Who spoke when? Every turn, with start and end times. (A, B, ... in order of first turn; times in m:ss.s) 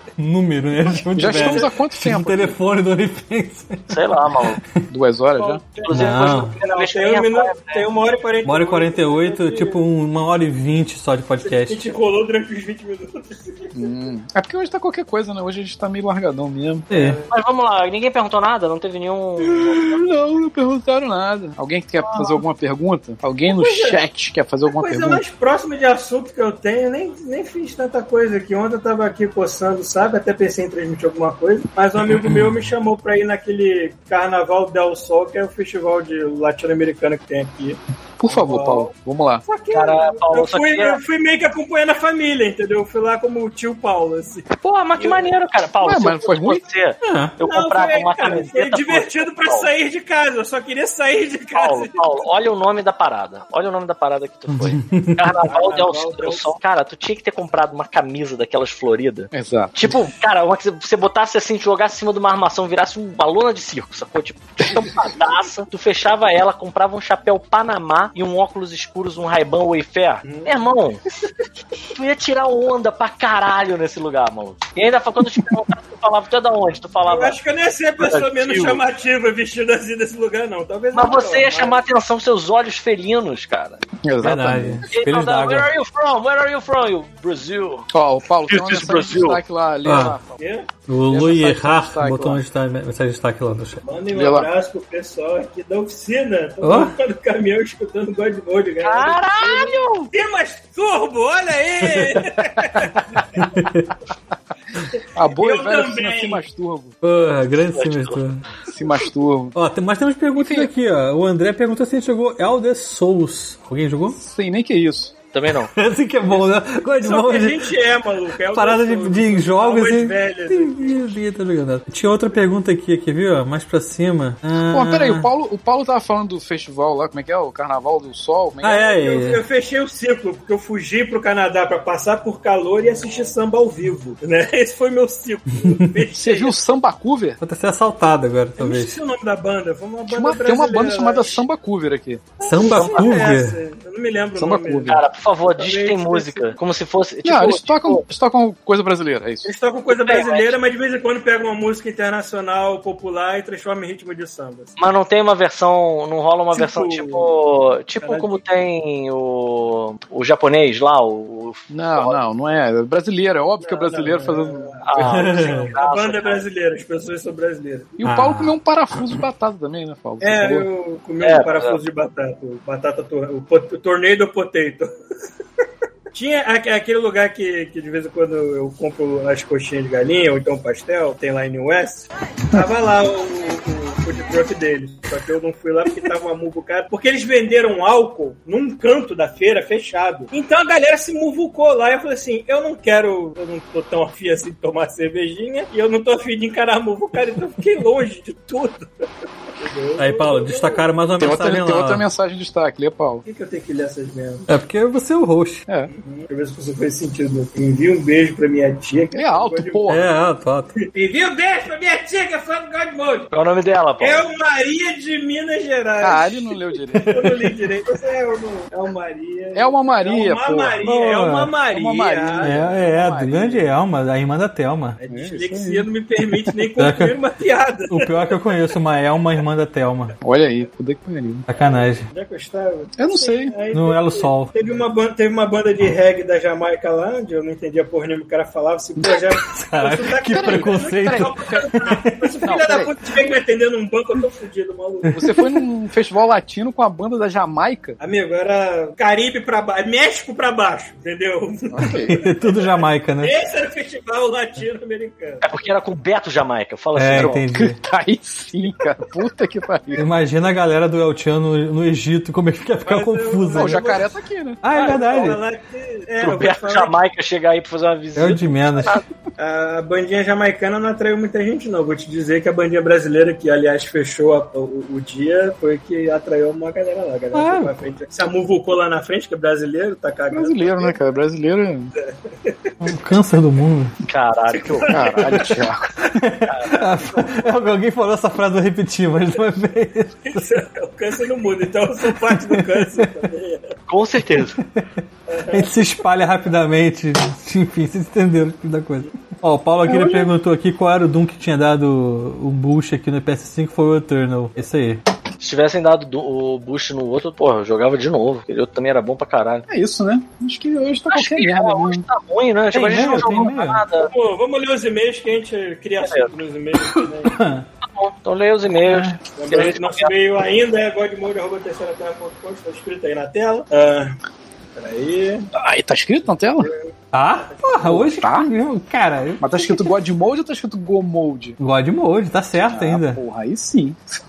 0:00.2-0:04.8 A
0:00.9-0:01.7 B
0:01.2-0:02.6 C
0:03.9-0:04.6 D
0:04.9-0:05.6 C
0:05.4-0:09.8 B
0:05.8-0:07.8 D
0:05.9-0:06.5 A
0:08.4-0:11.8 A
0:11.4-0:13.9 B
0:13.7-0:16.9 C
0:16.9-0:17.2 A
0:16.9-0:17.3 B
0:17.3-0:20.0 D
0:19.4-0:25.2 C
0:23.5-0:24.0 B
0:24.7-0:38.9 B
0:32.1-0:32.5 A
0:38.2-0:39.4 C
0:39.4-0:45.3 B
0:39.7-0:41.0 D
0:44.6-0:49.7 D
0:45.8-0:46.6 C
0:47.0-0:47.3 A
0:47.4-0:52.2 B
0:51.6-1:11.0 D
0:54.5-0:55.2 A
0:55.4-0:56.5 B
0:59.3-0:59.8 C
1:10.2-1:10.5 B
1:11.9-1:17.4 D
1:17.0-1:21.8 B
1:18.0-1:18.8 D
1:20.9-1:23.8 D
1:24.0-1:24.9 C
1:24.2-1:25.7 A
1:24.9-1:27.9 D
1:27.9-1:30.4 C
1:28.5-1:29.4 D
1:29.8-1:30.2 A
1:30.4-1:30.7 B
1:30.9-1:33.8 A
1:31.1-1:32.4 C
1:33.8-1:43.4 B
1:34.1-1:34.5 C
1:36.6-1:36.9 A
1:38.8-1:40.1 D
1:41.8-1:42.2 A
1:43.4-1:43.9 A
1:45.2-1:46.9 C
1:45.3-1:46.4 B
1:47.0-1:48.4 A
1:47.7-1:48.2 D
1:48.7-1:49.6 C
1:49.5-1:54.2 A
1:50.3-1:50.7 C
1:54.1-1:55.1 C
1:55.3-1:55.7 D
1:55.7-1:57.7 A
1:57.0-2:01.0 B
1:58.5-2:05.3 A
2:04.7-2:08.8 C
2:08.6-2:09.4 A
2:08.8-2:16.6 B
2:16.1-2:17.4 C
2:17.4-2:19.0 A
2:18.6-2:21.4 B
2:20.1-2:22.3 C
2:22.4-2:25.0 B
2:22.4-2:23.6 A
2:22.7-2:23.2 D
2:24.4-2:25.0 C
2:24.9-2:28.0 D
2:25.5-2:26.5 B
2:27.2-2:29.5 C
2:29.4-2:34.8 B
2:29.9-2:30.6 D
2:34.8-2:42.2 D
2:36.5-2:37.3 B
2:38.0-2:38.4 B
2:41.7-2:44.8 C
2:43.6-2:48.0 B
2:44.8-2:46.4 D
2:45.0-2:45.7 A
2:48.0-2:50.7 C
2:48.0-2:49.2 A
2:50.2-2:54.9 B
2:51.2-2:51.8 D
2:56.1-3:18.9 B
3:19.6-3:20.8 B
3:20.0-3:22.0 A
3:21.2-3:23.2 C
3:23.2-3:24.4 B
3:24.5-3:25.6 A
3:25.9-3:29.8 B
3:29.1-3:30.0 C
3:29.9-3:30.8 A
3:30.8-3:33.3 B
3:33.3-3:34.2 D
3:34.0-3:42.7 B
3:36.0-3:37.4 C
3:39.5-3:40.8 C
3:40.8-3:41.5 A
3:41.6-3:43.7 C
3:42.4-3:45.0 A
3:45.0-3:48.1 B
3:45.1-3:45.9 C
3:46.8-3:47.2 A
3:47.9-3:50.2 A
3:50.2-3:51.5 C
3:51.5-3:52.1 A
3:51.6-4:05.2 B
3:53.0-3:53.6 C
3:53.7-3:54.5 A
3:59.4-4:02.6 A
4:00.2-4:01.9 C
4:02.4-4:02.9 C
4:05.1-4:08.0 C
4:05.2-4:05.4 A
4:08.0-4:15.4 B
4:11.7-4:12.2 C
4:11.9-4:13.4 A
4:15.4-4:17.4 D
4:17.0-4:17.8 A
4:17.2-4:20.0 C
4:20.0-4:24.0 A
4:22.8-4:24.2 B
4:23.5-4:24.6 C
4:24.6-4:25.4 A
4:24.7-4:26.9 B
4:26.2-4:29.0 D
4:28.2-4:29.0 A
4:29.4-4:41.0 B
4:37.3-4:37.7 A
4:40.3-4:41.9 C
4:42.0-4:42.7 B
4:42.8-4:43.9 A
4:44.0-4:45.4 D
4:44.5-4:45.6 B
4:44.9-4:45.9 C
4:46.0-4:50.6 A
4:46.5-4:46.8 D
4:50.3-4:53.7 B
4:52.1-4:53.1 A
4:53.9-4:54.6 D
4:54.6-4:54.9 A
4:55.3-4:55.9 B
4:55.5-5:05.0 A
4:59.9-5:00.3 C
5:05.4-5:09.6 D
5:09.7-5:12.0 C
5:11.1-5:14.1 D
5:12.7-5:13.8 A
5:14.0-5:17.3 B
5:16.0-5:16.3 D
5:16.9-5:17.6 A
5:17.8-5:20.1 D
5:18.8-5:19.2 A
5:19.3-5:24.1 B
5:24.8-5:25.5 B
5:25.5-5:26.7 C
5:27.1-5:29.6 A
5:27.4-5:27.9 B
5:27.8-5:28.5 C
5:29.4-5:31.6 C
5:31.6-5:33.2 A
5:32.7-5:34.0 C